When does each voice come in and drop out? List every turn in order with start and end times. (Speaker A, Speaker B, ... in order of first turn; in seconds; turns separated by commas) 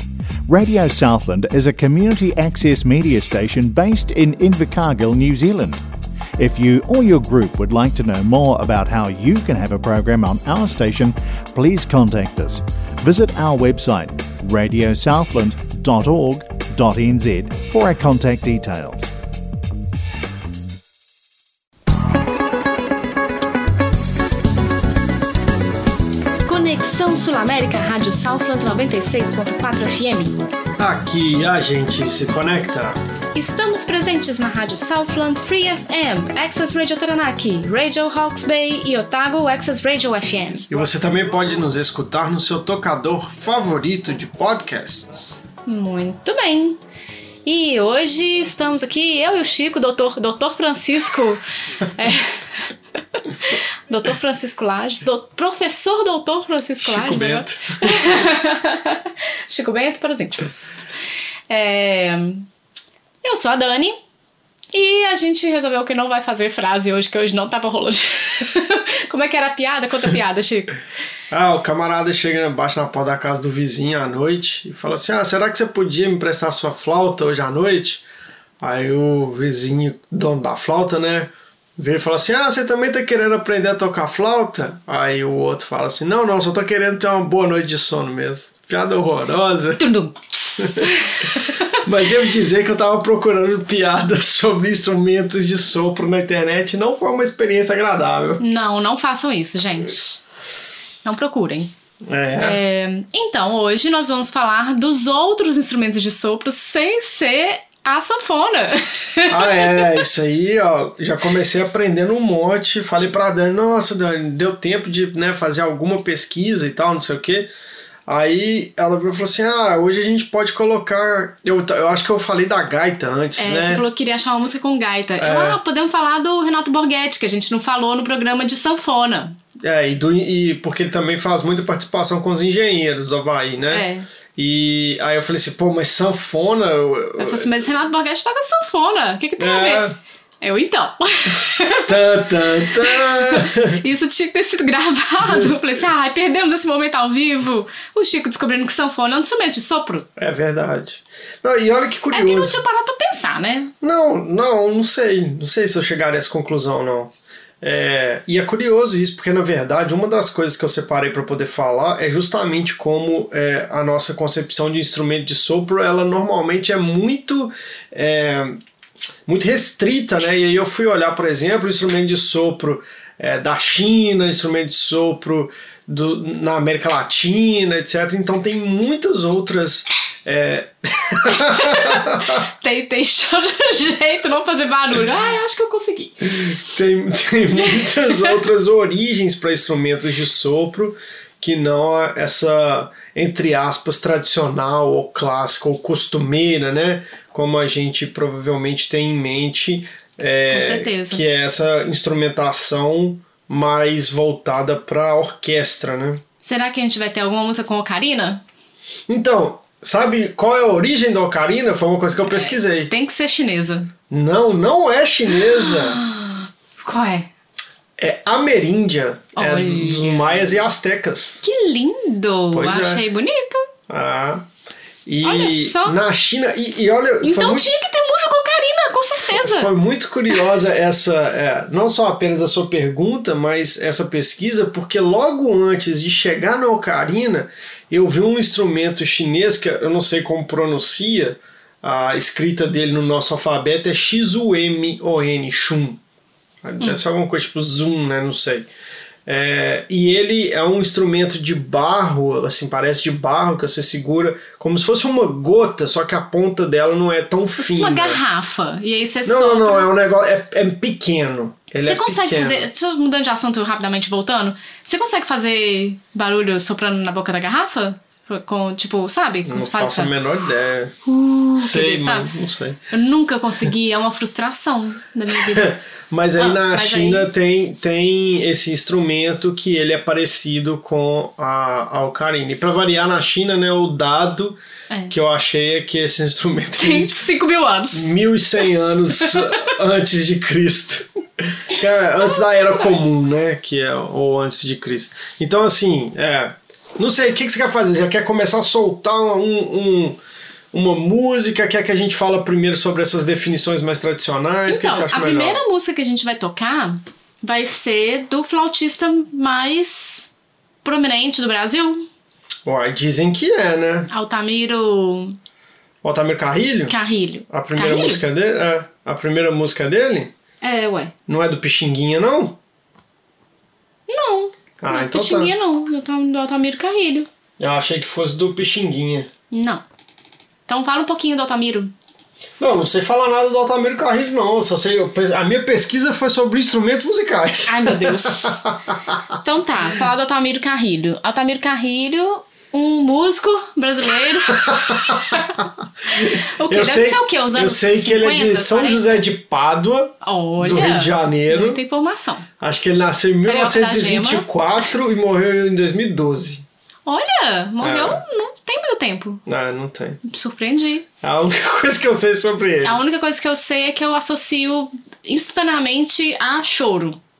Speaker A: 0.5-5.8, Speaker A: 6.4-19.1, Speaker B: 26.4-30.4, Speaker C: 30.8-33.0, Speaker B: 33.3-40.7, Speaker C: 40.7-45.4, Speaker B: 45.7-46.8, Speaker B: 47.4-60.8, Speaker C: 56.8-58.2, Speaker B: 61.5-62.5, Speaker B: 63.2-64.0, Speaker B: 64.7-70.8, Speaker C: 71.3-78.0, Speaker C: 78.6-89.8, Speaker B: 89.8-91.8, Speaker C: 90.6-98.4, Speaker B: 98.4-100.2, Speaker B: 101.0-101.7, Speaker C: 102.0-102.6, Speaker B: 102.4-110.0, Speaker C: 109.3-117.5, Speaker C: 118.1-123.8, Speaker B: 123.4-129.4, Speaker C: 125.2-125.6, Speaker C: 129.6-137.7, Speaker B: 133.7-134.1, Speaker B: 137.2-139.8, Speaker C: 139.4-140.0, Speaker B: 140.4-150.1, Speaker C: 141.8-143.8, Speaker C: 145.2-145.5, Speaker C: 150.2-152.6, Speaker B: 152.1-153.7, Speaker C: 153.8-168.6, Speaker C: 169.2-182.4, Speaker B: 181.3-186.3, Speaker C: 186.2-206.2, Speaker B: 187.7-188.3, Speaker B: 200.5-201.2, Speaker B: 206.4-208.4, Speaker C: 209.1-212.9, Speaker B: 212.3-213.9, Speaker C: 214.1-216.0, Speaker B: 215.5-217.3, Speaker C: 218.0-221.4, Speaker B: 219.3-220.6, Speaker B: 221.4-223.7, Speaker C: 222.5-223.0, Speaker C: 223.9-224.5, Speaker C: 225.1-227.7, Speaker B: 225.2-226.0, Speaker B: 227.2-229.7, Speaker C: 229.3-246.0, Speaker C: 246.6-248.7, Speaker C: 249.2-258.2, Speaker B: 257.6-259.9, Speaker C: 259.2-262.6, Speaker B: 261.8-270.1, Speaker C: 269.5-270.9, Speaker B: 271.1-272.3, Speaker C: 271.6-272.8, Speaker B: 272.9-275.7, Speaker C: 275.3-284.6, Speaker B: 276.4-277.3, Speaker C: 285.1-287.1, Speaker B: 286.8-288.1, Speaker C: 287.9-300.2, Speaker B: 289.2-289.5, Speaker B: 292.2-293.0, Speaker C: 300.7-305.6, Speaker B: 304.7-310.3, Speaker B: 310.8-312.1, Speaker C: 312.6-314.1, Speaker B: 314.1-315.4, Speaker C: 316.0-316.9, Speaker B: 316.9-318.2, Speaker C: 317.5-320.3, Speaker B: 320.6-321.1, Speaker C: 321.3-322.6, Speaker B: 324.1-327.3, Speaker C: 324.8-325.5, Speaker C: 327.6-329.3, Speaker B: 329.5-329.8, Speaker B: 330.7-331.9, Speaker C: 332.6-339.4, Speaker B: 337.7-338.6, Speaker B: 339.4-345.6, Speaker C: 344.5-351.8, Speaker B: 346.1-349.2, Speaker B: 350.2-352.5, Speaker C: 352.6-356.6, Speaker B: 353.4-354.5, Speaker B: 357.1-359.4, Speaker C: 357.8-358.2, Speaker C: 359.4-360.2, Speaker B: 360.2-361.1, Speaker C: 361.2-363.0, Speaker B: 362.8-367.2